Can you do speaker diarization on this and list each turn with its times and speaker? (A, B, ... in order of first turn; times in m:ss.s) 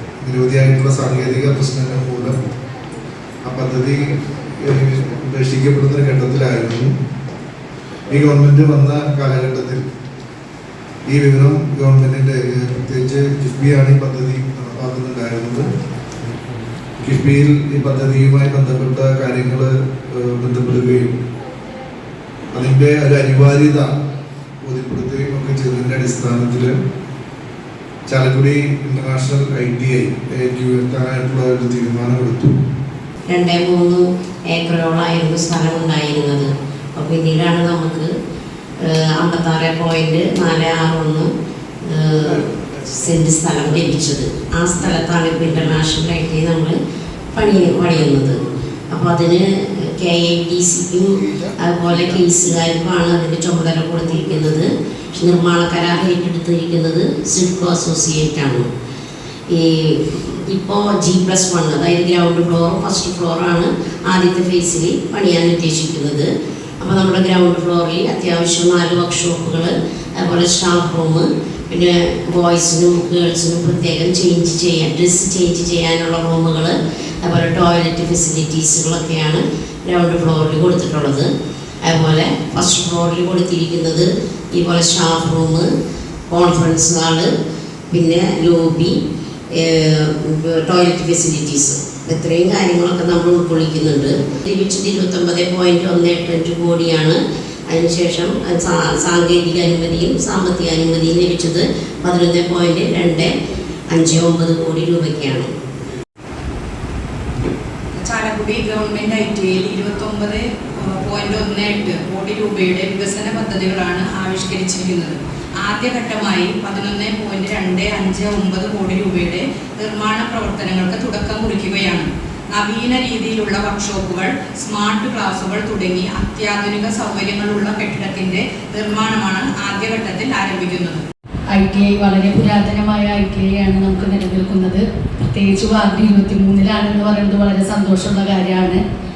0:00.2-0:02.4 A
0:03.4-0:04.1 A
0:04.7-0:06.9 A
0:08.1-0:09.8 A
0:11.1-0:15.7 A
0:17.0-0:21.1 A
0:22.5-0:23.9 A
0:24.6-0:26.7 A
0:28.1-0:32.6 A
0:33.3-0:38.1 B
0:38.8-0:41.3 B
0:41.8-0:46.8 B
0:42.2-0:42.9 A
0:47.3-0:58.7 B
0:51.3-0:52.1 A
0:59.5-1:06.3 B
1:06.8-1:21.3 B
1:21.8-1:25.7 B
1:26.3-1:27.3 B
1:27.9-1:29.0 B
1:29.6-1:43.3 B
1:43.9-1:45.5 B
1:48.0-2:11.0 C
2:11.5-2:18.8 D